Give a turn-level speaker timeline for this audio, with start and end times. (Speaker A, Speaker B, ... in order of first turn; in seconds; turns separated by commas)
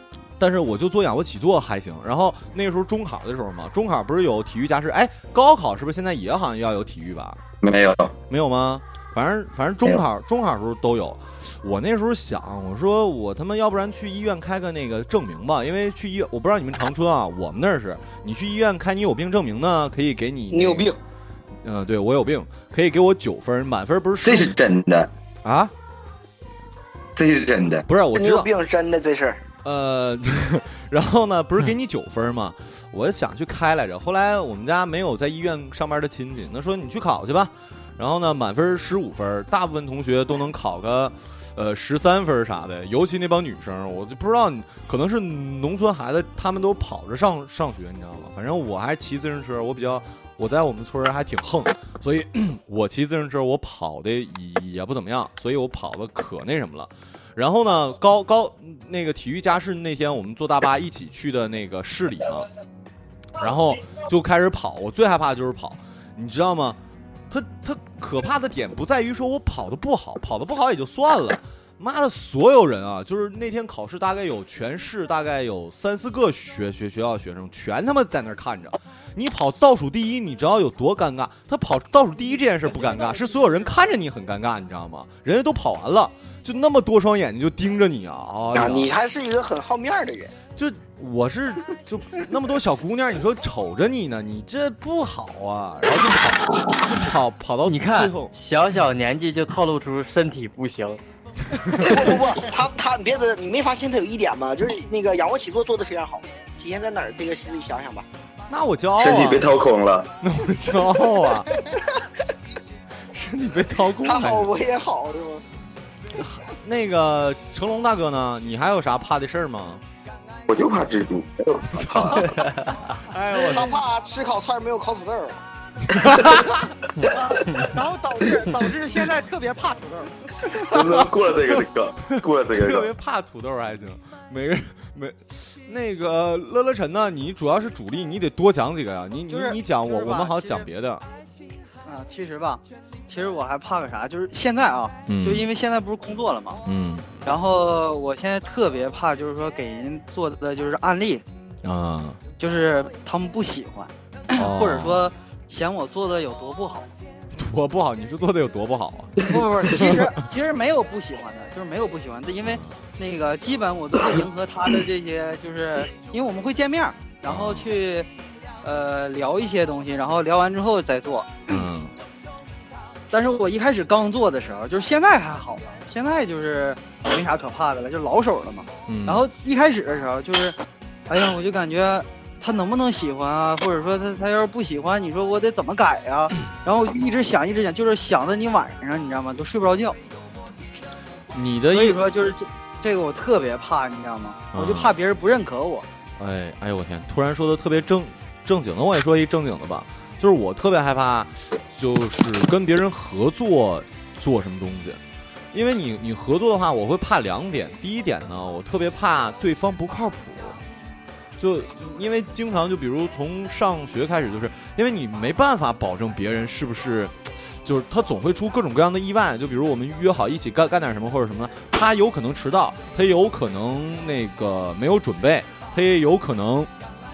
Speaker A: 0.4-7.4, Speaker B: 7.6-8.2, Speaker A: 8.3-20.9, Speaker C: 20.5-21.0, Speaker A: 21.6-24.5, Speaker B: 24.2-25.1, Speaker A: 25.4-25.7, Speaker B: 27.1-27.9, Speaker A: 27.9-28.5, Speaker C: 28.1-29.4, Speaker A: 29.6-62.5, Speaker A: 63.4-66.8, Speaker A: 67.3-88.9, Speaker D: 83.0-83.5, Speaker C: 88.6-90.3, Speaker A: 90.6-98.3, Speaker E: 97.7-101.0, Speaker C: 101.8-108.1, Speaker A: 108.5-109.5, Speaker B: 109.0-110.1, Speaker A: 110.2-111.5, Speaker A: 113.1-114.5, Speaker C: 114.0-115.4, Speaker A: 116.2-119.8, Speaker B: 120.5-122.3, Speaker A: 121.8-122.3, Speaker A: 123.0-123.8, Speaker C: 123.5-125.4, Speaker A: 125.9-126.6, Speaker E: 127.0-127.6, Speaker D: 127.1-130.2, Speaker B: 130.6-132.9, Speaker A: 130.7-141.1, Speaker D: 139.3-140.7, Speaker D: 141.9-146.6, Speaker A: 145.1-145.5, Speaker A: 146.7-147.2, Speaker D: 147.3-151.2, Speaker A: 151.6-152.2, Speaker D: 152.4-156.9, Speaker A: 154.3-155.1, Speaker A: 157.3-160.1, Speaker D: 159.3-168.1, Speaker A: 162.4-162.7, Speaker A: 167.3-167.7, Speaker D: 168.6-171.5, Speaker A: 171.5-171.9, Speaker D: 173.1-180.6, Speaker A: 178.9-179.2, Speaker D: 181.1-190.0, Speaker A: 191.3-192.0, Speaker D: 191.7-195.8, Speaker A: 194.5-195.0, Speaker A: 196.2-205.0, Speaker A: 205.5-210.6, Speaker A: 211.4-226.7